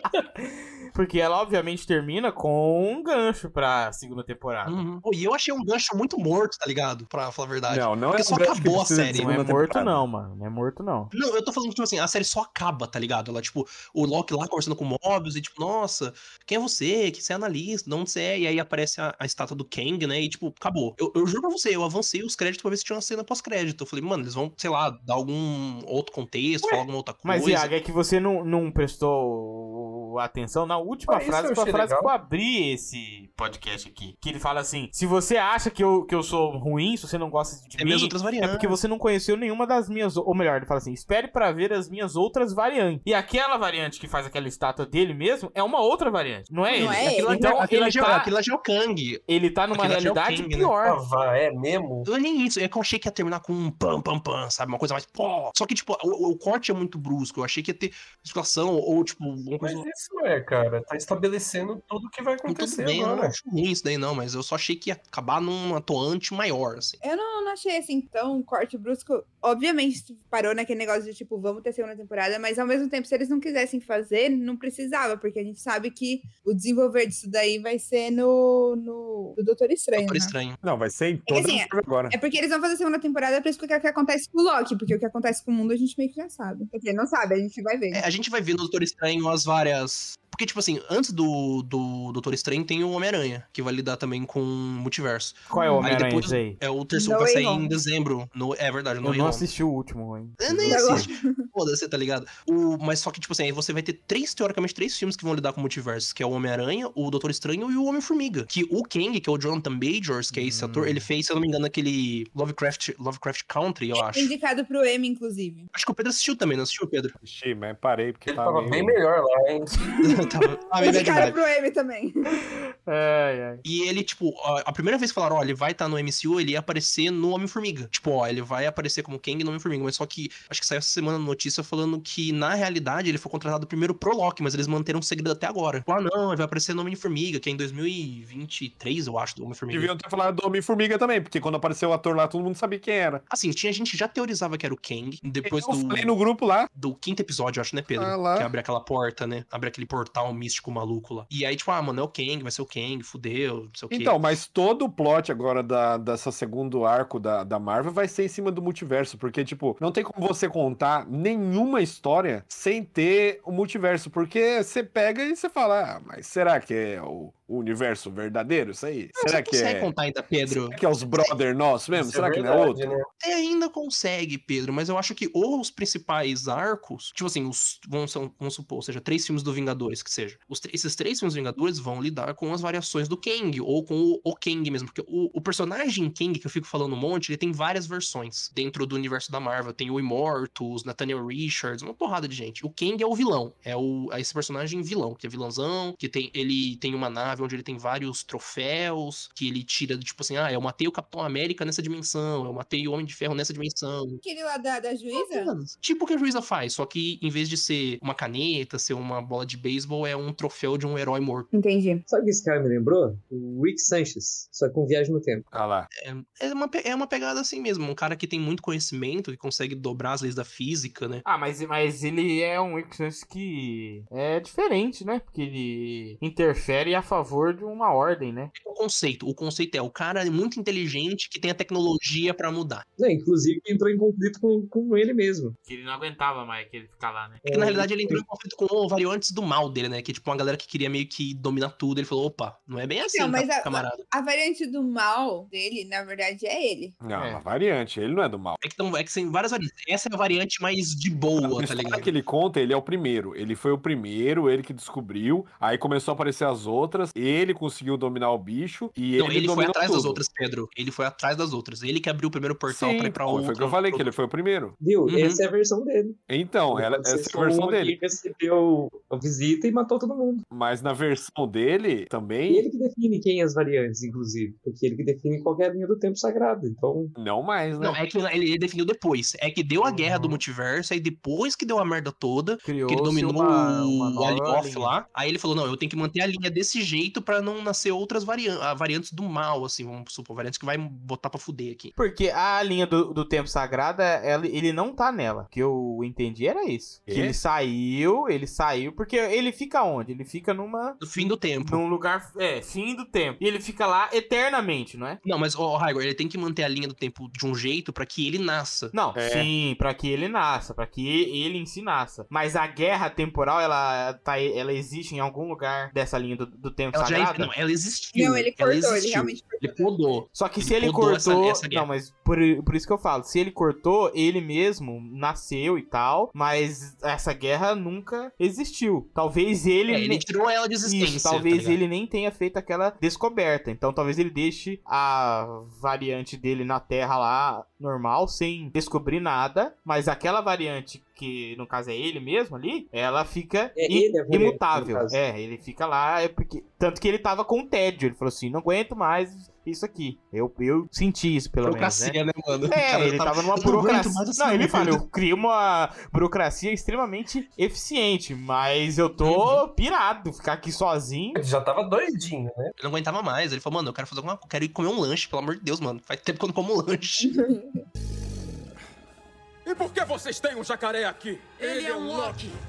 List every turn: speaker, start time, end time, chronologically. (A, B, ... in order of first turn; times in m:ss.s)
0:00.4-0:04.8 A
0:04.6-0:09.3 B
0:07.7-0:10.0 C
0:09.1-0:11.1 A
0:11.1-0:27.7 B
0:27.2-0:48.3 A
0:31.1-0:32.1 D
0:37.8-0:38.8 B
0:46.7-0:47.5 E
0:46.7-0:49.2 B
0:49.3-0:51.0 A
0:49.7-0:50.7 B
0:50.8-0:52.1 D
0:52.0-0:59.8 B
0:59.6-1:03.4 D
1:02.4-1:07.0 B
1:07.0-1:20.3 E
1:20.0-1:20.6 B
1:20.6-1:22.2 C
1:21.3-1:28.0 E
1:27.9-1:39.4 B
1:35.5-1:36.6 A
1:35.5-1:35.9 E
1:36.9-1:37.7 E
1:39.0-1:41.1 A
1:40.4-1:54.3 B
1:40.7-1:41.3 E
1:50.3-1:51.0 C
1:50.4-1:50.6 A
1:53.9-1:55.7 E
1:55.7-1:57.1 B
1:57.2-1:59.0 C
1:58.3-1:59.8 D
2:00.0-2:01.4 B
2:00.8-2:02.2 E
2:02.4-2:03.6 A
2:03.6-2:19.9 B
2:19.7-2:23.2 C
2:23.3-2:26.1 B
2:25.4-2:26.7 C
2:26.7-2:34.2 B
2:28.0-2:28.5 C
2:33.9-2:49.9 C
2:49.2-2:50.8 B
2:50.5-2:52.9 C
2:51.9-2:53.1 D
2:53.2-3:24.2 B
3:24.2-3:25.5 E
3:25.1-3:31.5 B
3:31.5-3:32.0 E
3:32.1-3:35.5 F
3:35.5-3:35.9 C
3:36.0-3:41.2 B
3:41.2-3:48.5 A
3:48.5-3:52.8 B
3:53.0-3:55.6 F
3:55.6-3:57.4 A
3:57.4-3:58.2 F
3:57.5-4:04.0 B
4:03.0-4:07.0 E
4:07.0-4:08.6 C
4:07.1-4:07.4 A
4:08.6-4:12.1 B
4:11.4-4:20.2 C
4:19.2-4:24.1 B
4:22.7-4:24.8 C
4:24.8-4:26.2 F
4:25.1-4:25.4 B
4:26.3-4:28.0 C
4:26.7-4:30.4 F
4:30.5-4:32.6 C
4:32.5-4:37.1 F
4:37.2-4:38.0 C
4:37.8-4:51.9 B
4:42.6-4:44.9 A
4:52.0-5:05.2 A
4:57.1-4:57.4 C
5:01.0-5:01.8 B
5:05.2-5:08.9 B
5:08.9-5:17.5 A
5:09.1-5:09.5 C
5:16.9-5:21.9 B
5:18.1-5:20.2 E
5:20.3-5:30.2 A
5:29.9-5:31.8 B
5:30.8-5:52.2 A
5:43.7-5:45.2 F
5:51.6-5:55.0 B
5:52.7-6:01.4 A
5:59.2-5:59.6 B
6:01.3-6:02.7 D
6:02.8-6:07.3 B
6:07.2-6:07.8 E
6:09.6-6:12.5 G